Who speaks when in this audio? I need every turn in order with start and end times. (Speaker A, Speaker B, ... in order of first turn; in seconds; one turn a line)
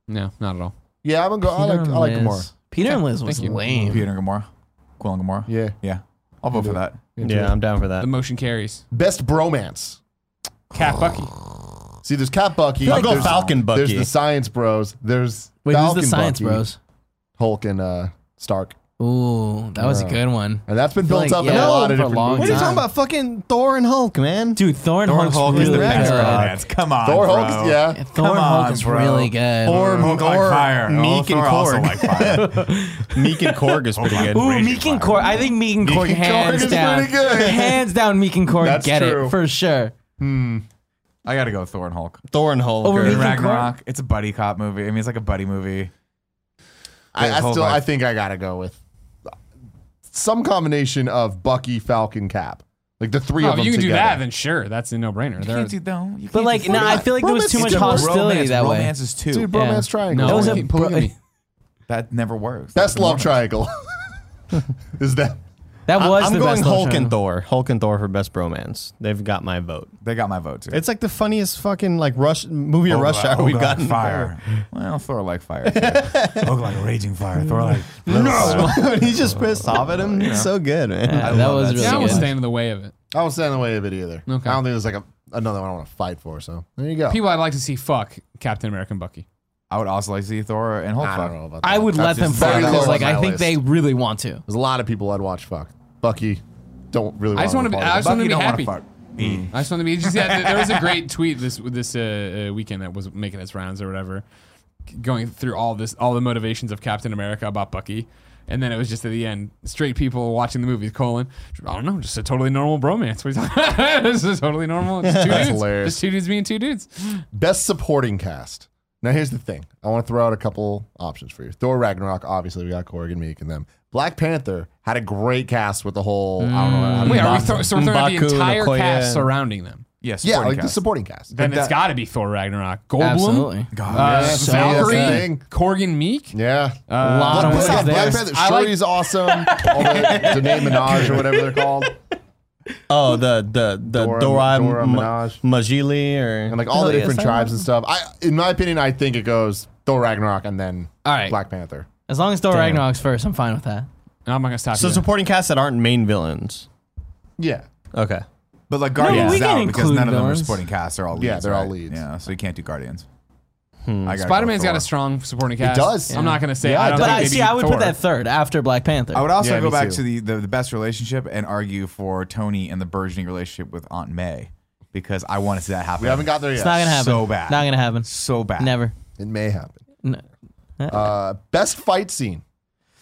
Speaker A: 0.1-0.7
Speaker B: 1.0-2.5
Speaker C: 1.5-4.1
Speaker A: 3.2-3.6
Speaker B: 3.3-4.0
Speaker D: 3.9-7.0
Speaker B: 5.5-5.8
Speaker B: 6.5-7.6
Speaker E: 7.2-8.1
Speaker A: 8.0-8.8
Speaker B: 8.9-10.0
Speaker A: 10.7-11.3
Speaker B: 12.0-16.6
Speaker E: 12.8-14.1
Speaker C: 12.9-13.3
Speaker C: 15.6-16.8
Speaker B: 17.4-18.8
Speaker C: 19.0-22.8
Speaker B: 19.8-22.8
Speaker E: 21.4-24.6
Speaker C: 24.6-26.5
Speaker D: 25.1-32.6
Speaker E: 25.5-26.6
Speaker B: 27.0-28.0
Speaker C: 27.9-30.0
Speaker E: 29.6-34.5
Speaker B: 29.7-30.1
Speaker C: 32.3-33.6
Speaker D: 34.0-35.5
Speaker C: 34.1-39.9
Speaker B: 35.8-37.8
Speaker B: 38.6-39.4
Speaker B: 40.2-40.6
Speaker D: 41.2-42.2
Speaker E: 42.3-43.4
Speaker C: 42.8-43.7
Speaker D: 43.0-45.9
Speaker B: 47.1-48.8
Speaker D: 47.2-47.8
Speaker B: 50.1-54.2
Speaker A: 53.4-55.8
Speaker D: 55.4-59.5
Speaker C: 56.3-58.9
Speaker B: 56.7-58.2
Speaker B: 59.3-61.1
Speaker C: 59.5-61.1
Speaker A: 60.1-61.1
Speaker D: 61.9-63.4
Speaker B: 62.7-64.0
Speaker B: 64.9-65.4
Speaker C: 65.9-67.2
Speaker E: 66.0-69.9
Speaker D: 70.0-70.8
Speaker E: 70.7-74.6
Speaker D: 72.9-80.5
Speaker E: 75.7-76.5
Speaker E: 77.5-82.0
Speaker C: 78.4-78.8
Speaker C: 81.0-82.3
Speaker D: 81.2-82.3
Speaker A: 81.8-82.9
Speaker B: 83.1-87.2
Speaker A: 84.3-84.6
Speaker A: 87.1-89.2
Speaker D: 89.7-91.3
Speaker B: 91.0-93.6
Speaker C: 91.6-94.4
Speaker D: 92.1-93.1
Speaker B: 94.5-98.2
Speaker A: 97.3-98.8
Speaker D: 98.0-101.0
Speaker B: 99.2-99.5
Speaker A: 99.5-104.2
Speaker A: 104.9-117.2
Speaker E: 115.0-115.5
Speaker B: 115.2-116.0
Speaker B: 117.3-127.7
Speaker C: 126.4-127.5
Speaker E: 127.0-129.3
Speaker A: 127.0-129.8
Speaker D: 130.0-130.8
Speaker B: 130.2-131.3
Speaker D: 131.3-131.8
Speaker A: 131.3-136.4
Speaker C: 133.0-135.3
Speaker D: 133.7-134.5
Speaker B: 133.9-135.4
Speaker B: 136.3-141.9
Speaker A: 136.9-138.0
Speaker C: 137.0-141.6
Speaker D: 137.4-138.2
Speaker E: 142.9-146.6
Speaker B: 143.9-145.4
Speaker B: 146.5-151.9
Speaker C: 146.7-147.7
Speaker C: 151.1-151.4
Speaker C: 152.1-153.9
Speaker E: 152.5-152.9
Speaker A: 154.3-155.1
Speaker E: 154.7-156.7
Speaker B: 157.4-157.7
Speaker E: 157.9-158.2
Speaker D: 158.7-163.1
Speaker C: 159.0-160.6
Speaker E: 159.1-159.4
Speaker B: 161.2-162.0
Speaker E: 163.8-164.2
Speaker D: 164.1-164.9
Speaker A: 164.2-168.0
Speaker B: 165.6-167.4
Speaker C: 166.1-169.3
Speaker D: 169.1-178.8
Speaker B: 169.4-170.0
Speaker B: 176.0-177.0
Speaker C: 176.6-178.1
Speaker C: 178.6-178.9
Speaker B: 179.2-179.8
Speaker C: 180.8-181.1
Speaker B: 180.9-182.4